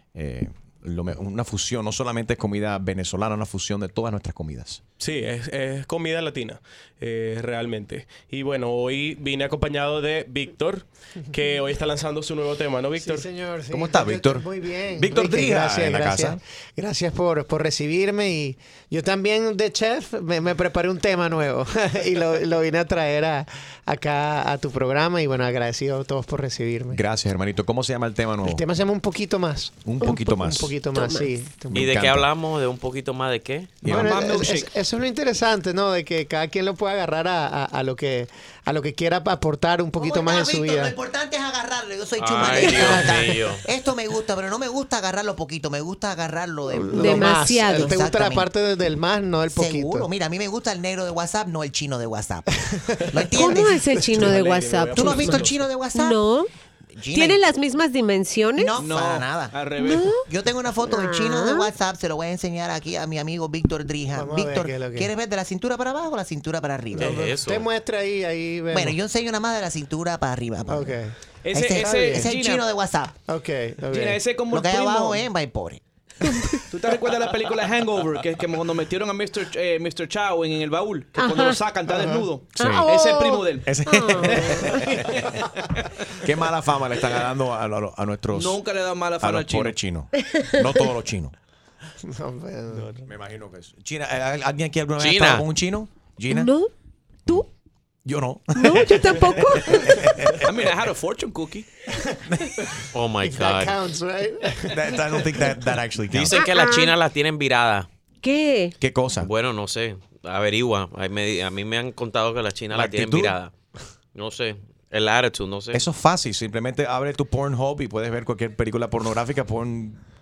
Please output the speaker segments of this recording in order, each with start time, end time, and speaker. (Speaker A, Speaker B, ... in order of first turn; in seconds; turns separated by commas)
Speaker A: 0.1-4.8, Speaker B: 5.0-13.3, Speaker C: 13.0-27.0, Speaker A: 13.7-16.4, Speaker A: 26.9-28.6, Speaker C: 28.4-31.8, Speaker A: 29.9-30.7, Speaker D: 30.0-31.3, Speaker A: 31.7-32.3, Speaker E: 31.7-33.8, Speaker A: 33.8-34.2, Speaker C: 33.8-41.0, Speaker F: 33.9-34.7, Speaker G: 40.0-47.0, Speaker E: 42.2-43.6, Speaker D: 42.6-43.0, Speaker C: 46.7-50.1, Speaker D: 46.9-47.9, Speaker A: 47.0-47.4, Speaker G: 47.8-48.5, Speaker G: 49.5-52.5, Speaker C: 52.6-53.2, Speaker G: 53.1-53.8, Speaker D: 53.3-56.5, Speaker B: 54.1-55.7, Speaker G: 55.0-56.2, Speaker G: 57.0-57.4, Speaker D: 57.1-58.7, Speaker G: 58.6-59.6, Speaker F: 58.8-60.2, Speaker D: 59.8-60.2, Speaker G: 60.2-67.1, Speaker D: 60.9-61.7, Speaker C: 64.1-65.1, Speaker C: 67.0-69.0, Speaker E: 67.0-67.7, Speaker G: 68.7-71.0, Speaker C: 70.7-71.2, Speaker F: 71.4-72.7, Speaker G: 71.5-73.2, Speaker C: 71.8-72.3, Speaker C: 73.3-74.2, Speaker F: 73.9-75.3, Speaker G: 74.5-75.8, Speaker D: 76.2-76.6, Speaker F: 76.7-84.6, Speaker D: 81.2-81.6, Speaker C: 81.9-82.2, Speaker A: 82.6-82.9, Speaker D: 82.6-84.9, Speaker A: 83.6-85.3, Speaker A: 86.1-88.6, Speaker F: 88.3-89.8, Speaker A: 89.2-91.3, Speaker D: 90.2-90.6, Speaker C: 92.0-92.9, Speaker F: 92.8-93.0, Speaker A: 93.0-96.5, Speaker E: 95.0-95.5, Speaker D: 96.3-96.7, Speaker A: 98.0-100.8, Speaker D: 98.5-100.2, Speaker F: 100.4-101.7, Speaker C: 101.9-102.2, Speaker E: 102.9-103.8, Speaker C: 103.2-105.6, Speaker A: 104.7-106.4, Speaker E: 106.1-107.9, Speaker D: 106.3-107.0, Speaker D: 108.2-108.8, Speaker A: 108.8-109.3, Speaker E: 109.2-113.5, Speaker A: 112.7-113.4, Speaker E: 114.2-115.8, Speaker A: 115.7-120.0